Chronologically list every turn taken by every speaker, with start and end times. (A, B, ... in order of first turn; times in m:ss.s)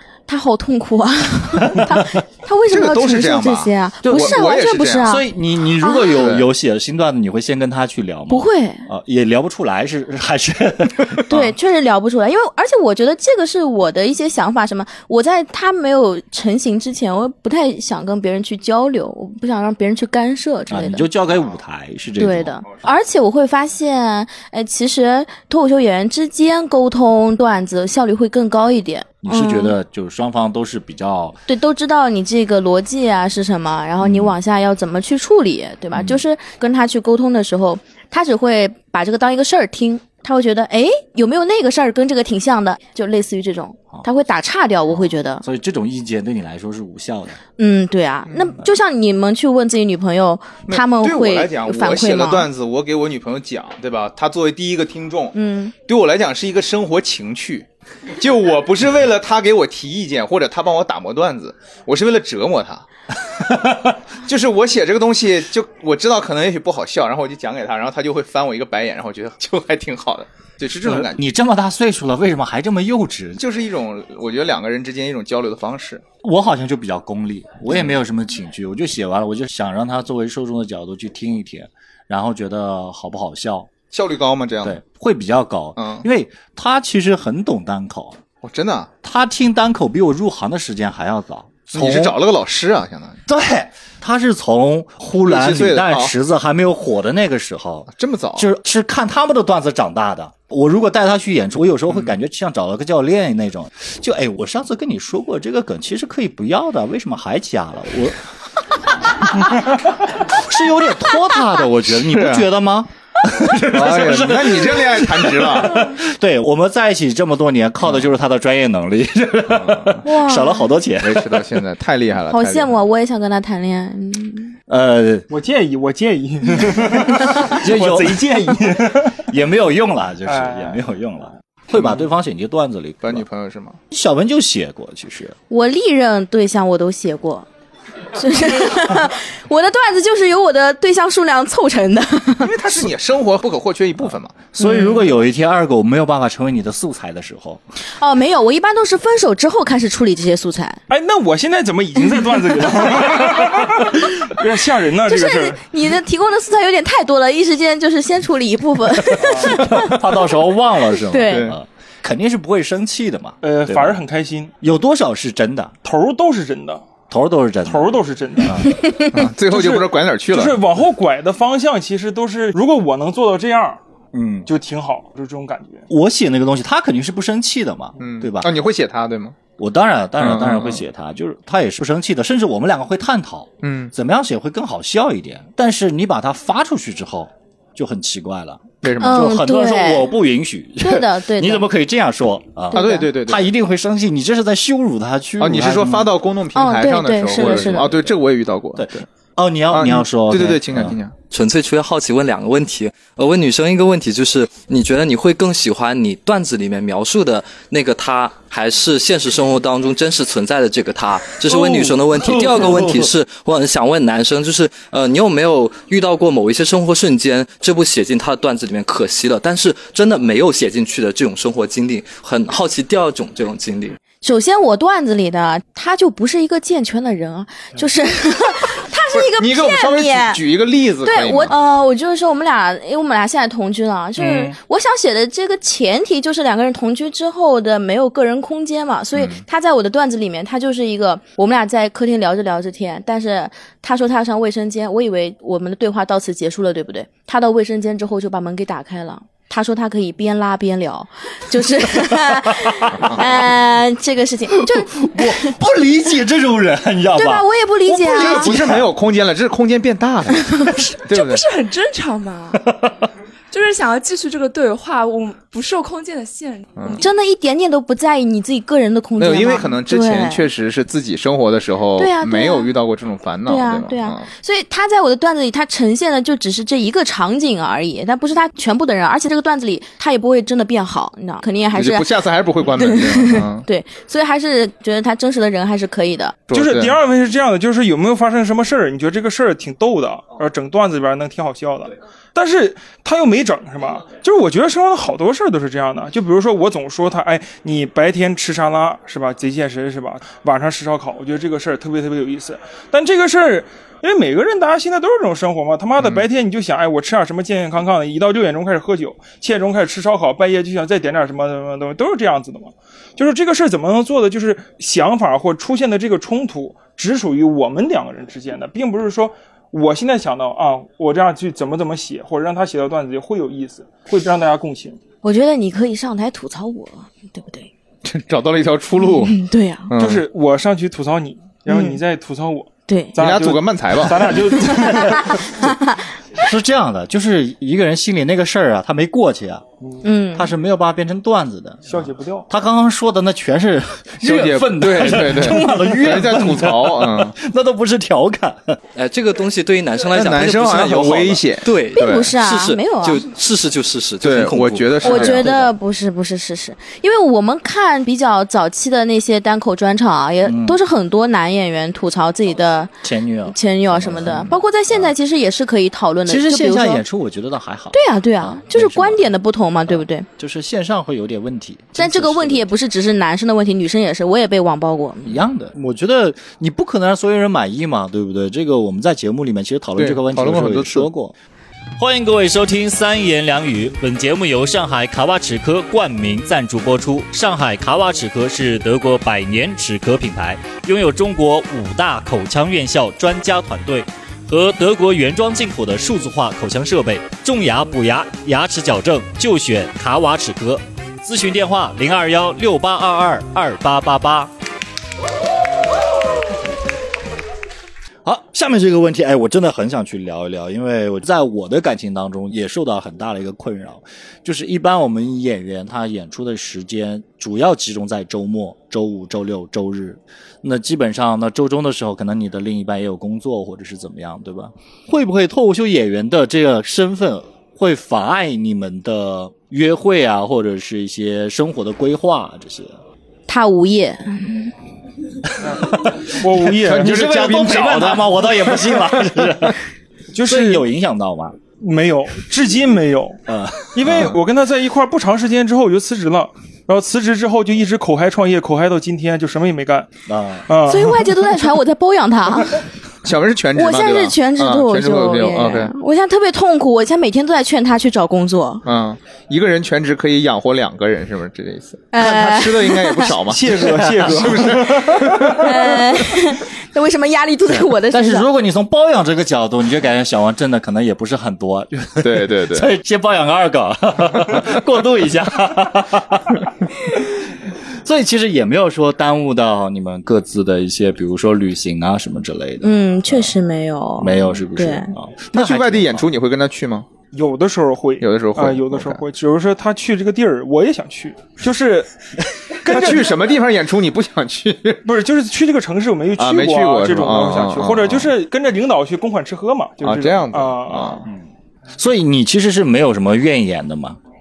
0:00.3-0:05.2 A
0:01.6-0:02.1 B
0:02.7-0:05.2 C
0:04.0-0:04.4 B
0:05.0-0:11.5 B
0:05.8-0:06.2 A
0:06.0-0:06.5 C
0:08.3-0:08.9 A
0:11.3-0:21.1 A
0:20.7-0:22.6 B
0:22.2-0:29.8 A
0:29.2-0:31.4 B
0:31.5-0:45.4 A
0:34.0-0:34.3 B
0:35.9-0:36.2 B
0:45.4-0:47.4 B
0:47.6-0:52.5 A
0:48.3-0:48.6 C
0:50.7-0:55.3 C
0:55.3-0:55.7 A
0:55.8-1:02.8 C
1:03.5-1:03.8 B
1:04.2-1:11.2 C
1:10.8-1:13.4 B
1:13.4-1:16.0 C
1:16.2-1:23.7 B
1:23.9-1:24.8 C
1:24.6-1:28.2 B
1:25.8-1:26.0 C
1:28.4-1:28.9 C
1:29.0-1:32.2 B
1:31.7-1:33.2 C
1:33.3-1:48.2 B
1:35.2-1:36.1 C
1:38.0-1:38.4 C
1:49.2-2:01.5 B
1:51.9-1:52.5 C
1:53.5-1:55.9 C
1:59.5-2:00.0 C
2:00.0-2:00.7 A
2:01.0-2:02.7 C
2:02.3-2:04.5 A
2:04.7-2:05.3 B
2:05.3-2:09.2 D
2:06.9-2:08.3 B
2:09.3-2:13.2 B
2:10.2-2:10.8 D
2:11.8-2:12.0 C
2:13.0-2:13.8 C
2:13.9-2:15.4 B
2:15.5-2:17.5 A
2:18.1-2:22.5 A
2:22.4-2:24.4 C
2:24.5-2:27.6 B
2:24.6-2:25.1 A
2:28.0-2:30.8 A
2:30.9-2:35.6 D
2:35.1-2:40.2 A
2:39.2-2:39.6 D
2:39.2-2:44.0 B
2:41.0-2:41.5 A
2:41.3-2:41.6 C
2:43.4-2:44.5 D
2:44.6-2:45.7 B
2:45.8-2:46.8 D
2:47.1-2:49.2 B
2:47.6-2:48.8 D
2:49.1-2:50.6 C
2:49.5-2:53.8 D
2:54.1-2:54.5 B
2:54.4-2:55.8 D
2:55.9-2:58.5 B
2:58.0-2:59.4 C
2:59.6-3:16.1 B
3:00.2-3:00.8 C
3:03.6-3:03.9 C
3:08.8-3:09.3 C
3:09.0-3:10.1 A
3:10.8-3:11.7 A
3:12.7-3:13.1 A
3:12.7-3:13.5 C
3:15.4-3:19.0 C
3:16.5-3:17.9 A
3:17.3-3:18.1 B
3:18.8-3:21.0 B
3:19.7-3:21.1 C
3:21.3-3:44.0 E
3:31.5-3:33.1 B
3:44.2-3:50.4 A
3:49.1-3:51.5 C
3:51.0-4:15.6 A
3:54.2-3:54.5 B
4:12.3-4:13.0 B
4:13.0-4:13.2 C
4:14.5-4:18.9 B
4:17.1-4:18.5 A
4:18.0-4:21.4 C
4:21.1-4:22.7 F
4:23.5-4:27.0 F
4:26.8-4:27.0 C
4:26.9-4:30.4 A
4:29.2-4:34.3 C
4:32.0-4:32.7 A
4:33.4-4:42.1 A
4:41.7-4:43.6 C
4:42.7-4:46.4 A
4:46.5-4:46.9 C
4:46.5-5:25.0 D
5:06.0-5:06.2 C
5:25.2-5:27.7 A
5:28.0-5:30.2 C
5:29.2-5:29.9 A
5:30.0-5:35.6 D
5:31.7-5:32.0 A
5:32.9-5:33.2 A
5:33.2-5:34.4 C
5:34.9-5:36.0 A
5:36.3-5:39.6 B
5:40.0-5:40.5 A
5:40.3-5:48.8 B
5:41.9-5:42.5 D
5:44.2-5:47.3 C
5:48.9-5:55.7 E
5:50.1-5:52.3 C
5:51.9-5:53.3 A
5:54.2-5:55.5 C
5:55.0-6:02.9 A
6:00.4-6:00.8 B
6:03.0-6:05.1 B
6:03.4-6:07.0 A
6:06.2-6:09.3 B
6:07.9-6:10.3 A
6:09.9-6:12.7 B
6:12.0-6:15.4 A
6:15.2-6:21.3 B
6:20.0-6:21.1 C
6:22.0-6:44.5 B
6:48.2-7:13.0 B
7:13.5-7:14.7 A
7:15.6-7:17.2 D
7:15.8-7:19.8 B
7:16.8-7:19.7 C
7:20.3-7:20.8 D
7:20.4-7:21.6 B
7:21.8-7:23.4 D
7:23.5-7:24.4 B
7:23.9-7:30.1 D
7:30.3-7:30.7 B
7:30.7-7:31.3 D
7:30.9-7:32.8 A
7:33.2-7:35.9 C
7:33.7-7:38.8 A
7:38.8-7:45.7 C
7:42.1-7:43.3 A
7:43.4-7:45.7 D
7:44.0-7:44.5 B
7:45.6-7:48.5 A
7:47.7-7:57.3 B
7:52.2-7:52.9 C
7:58.0-8:03.5 B
8:02.8-8:05.1 A
8:04.2-8:06.3 B
8:05.5-8:07.1 C
8:07.3-8:13.3 D
8:08.2-8:09.2 C
8:12.8-8:15.0 C
8:15.0-8:21.2 D
8:16.4-8:18.3 C
8:20.0-8:21.2 C
8:21.9-8:24.2 B